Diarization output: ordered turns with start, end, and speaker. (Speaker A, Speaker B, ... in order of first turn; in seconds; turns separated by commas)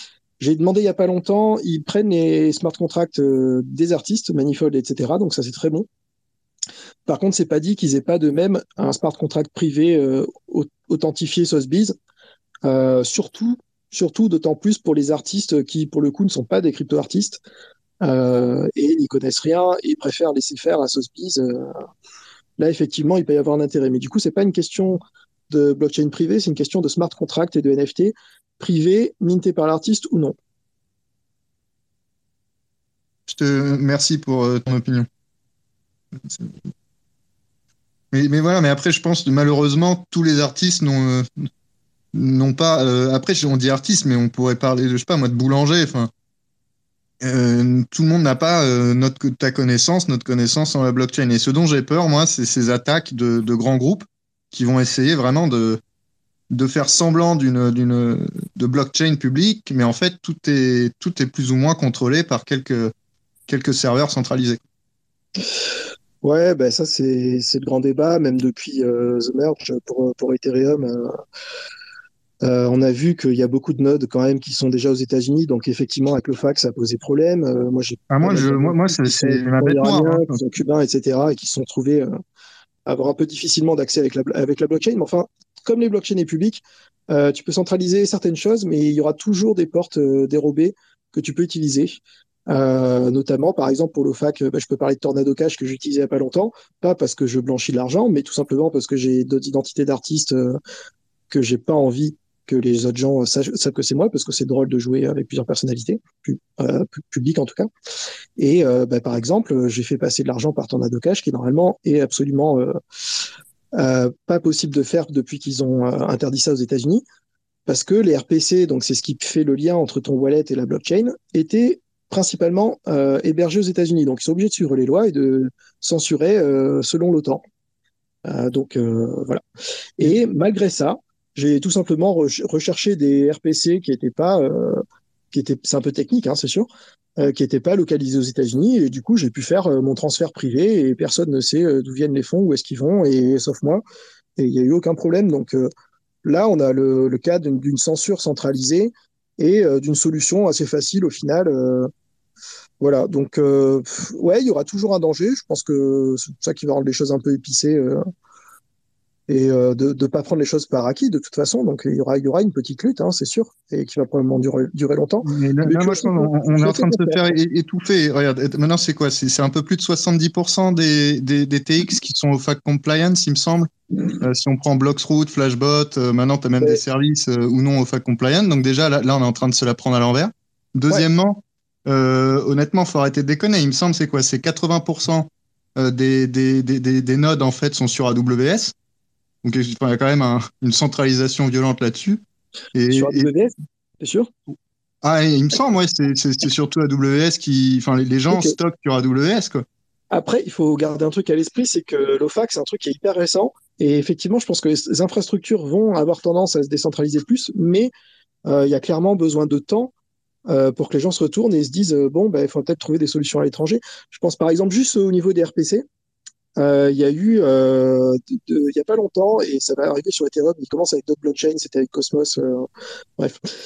Speaker A: 0.4-5.9, Speaker A: 7.1-11.9, Speaker A: 12.6-17.4, Speaker A: 18.0-21.8, Speaker A: 22.6-30.4, Speaker B: 33.3-35.1, Speaker B: 36.2-36.5, Speaker B: 38.1-41.4, Speaker B: 42.1-46.1, Speaker B: 47.2-55.8, Speaker B: 56.5-62.9, Speaker B: 63.5-64.6, Speaker A: 66.2-71.1, Speaker A: 72.4-82.2, Speaker B: 78.1-80.4, Speaker A: 82.8-100.6, Speaker A: 101.3-107.7, Speaker A: 108.4-112.8, Speaker A: 113.7-117.0, Speaker A: 117.7-127.4, Speaker A: 128.2-129.4, Speaker A: 130.0-143.8, Speaker A: 144.4-145.7, Speaker A: 146.2-151.9, Speaker A: 152.8-158.0, Speaker A: 159.3-167.3, Speaker B: 165.2-173.7, Speaker B: 174.2-188.7, Speaker B: 189.4-192.2, Speaker B: 192.7-193.3, Speaker A: 192.9-194.3, Speaker B: 195.0-199.6, Speaker A: 200.1-207.9, Speaker A: 208.5-209.9, Speaker A: 210.5-215.8, Speaker A: 216.6-223.4